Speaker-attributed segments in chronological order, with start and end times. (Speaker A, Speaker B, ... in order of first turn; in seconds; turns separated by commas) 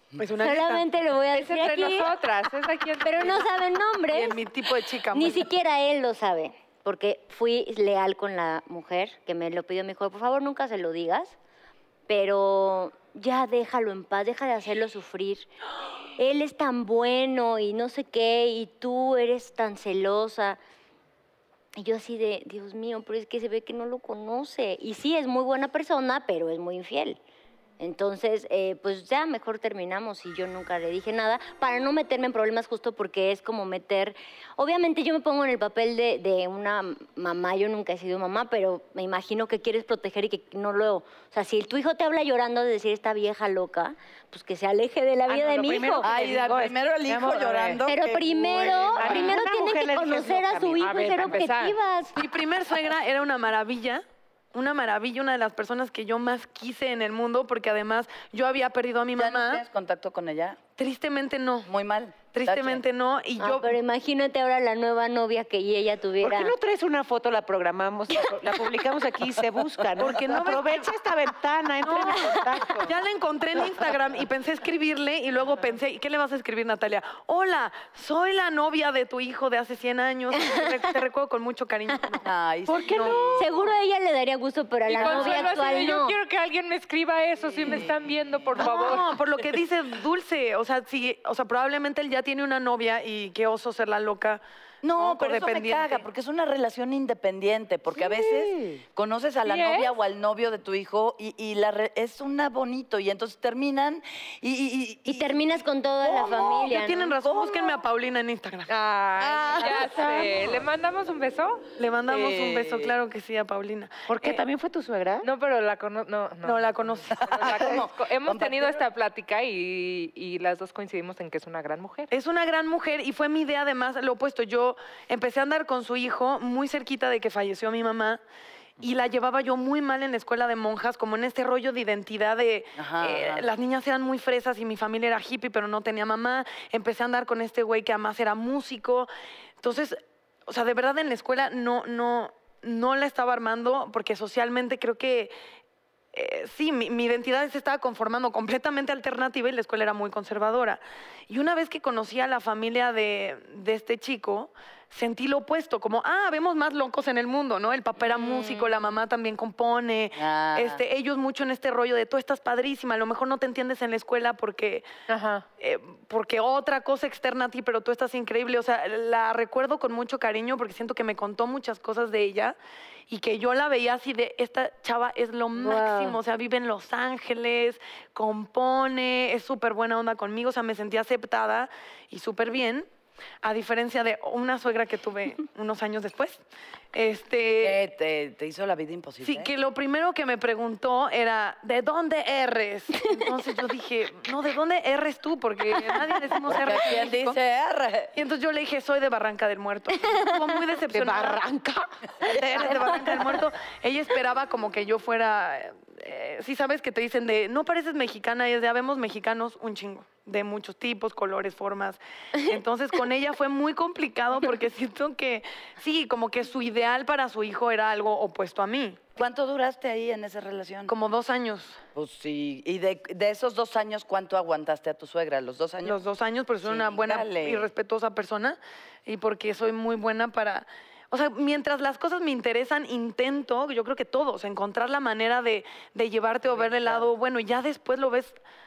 Speaker A: 0.2-0.9, Speaker B: 0.4-2.1, Speaker C: 1.3-3.5, Speaker B: 3.0-4.5, Speaker A: 4.1-5.5, Speaker B: 5.1-11.4, Speaker B: 12.1-15.5, Speaker B: 16.1-20.6, Speaker B: 21.8-27.2, Speaker B: 27.8-46.1, Speaker D: 45.3-47.9, Speaker E: 46.0-49.0, Speaker B: 47.9-52.2, Speaker D: 49.0-50.8, Speaker C: 49.0-49.4, Speaker C: 50.8-51.8, Speaker A: 52.1-59.6, Speaker E: 59.1-60.6, Speaker A: 60.8-61.7, Speaker E: 61.7-62.8, Speaker A: 62.3-63.8, Speaker B: 63.4-66.5, Speaker D: 66.2-72.9, Speaker E: 69.8-70.5, Speaker A: 70.0-70.9, Speaker A: 71.8-83.3, Speaker E: 82.2-83.4, Speaker D: 82.7-83.6, Speaker B: 83.3-86.2, Speaker C: 84.9-89.2, Speaker A: 85.0-85.3, Speaker A: 88.6-94.4, Speaker E: 94.8-107.8, Speaker A: 95.0-96.0, Speaker C: 99.5-99.9, Speaker B: 105.1-107.2, Speaker A: 106.6-108.7, Speaker C: 108.7-111.7, Speaker A: 109.4-110.1, Speaker E: 109.5-109.8, Speaker A: 111.8-114.3, Speaker E: 112.1-113.0, Speaker D: 114.1-115.3, Speaker C: 115.2-122.1, Speaker A: 116.4-117.8, Speaker E: 117.1-118.8, Speaker A: 122.1-128.2, Speaker A: 128.8-139.1, Speaker E: 132.8-133.5, Speaker A: 139.6-145.3, Speaker A: 146.1-164.9, Speaker B: 158.1-158.9, Speaker E: 160.2-160.8, Speaker C: 165.1-165.5, Speaker A: 165.6-172.6, Speaker A: 173.1-182.9, Speaker B: 175.6-176.2, Speaker A: 183.4-186.4, Speaker A: 186.9-187.8, Speaker E: 187.6-189.5, Speaker A: 189.2-197.4, Speaker E: 196.5-198.1, Speaker A: 198.1-201.4, Speaker D: 200.9-201.9, Speaker A: 202.2-219.0, Speaker B: 202.7-203.1, Speaker E: 219.2-220.9, Speaker A: 220.9-221.8, Speaker E: 221.9-226.0, Speaker A: 225.8-238.4, Speaker E: 226.6-227.7, Speaker D: 236.5-237.0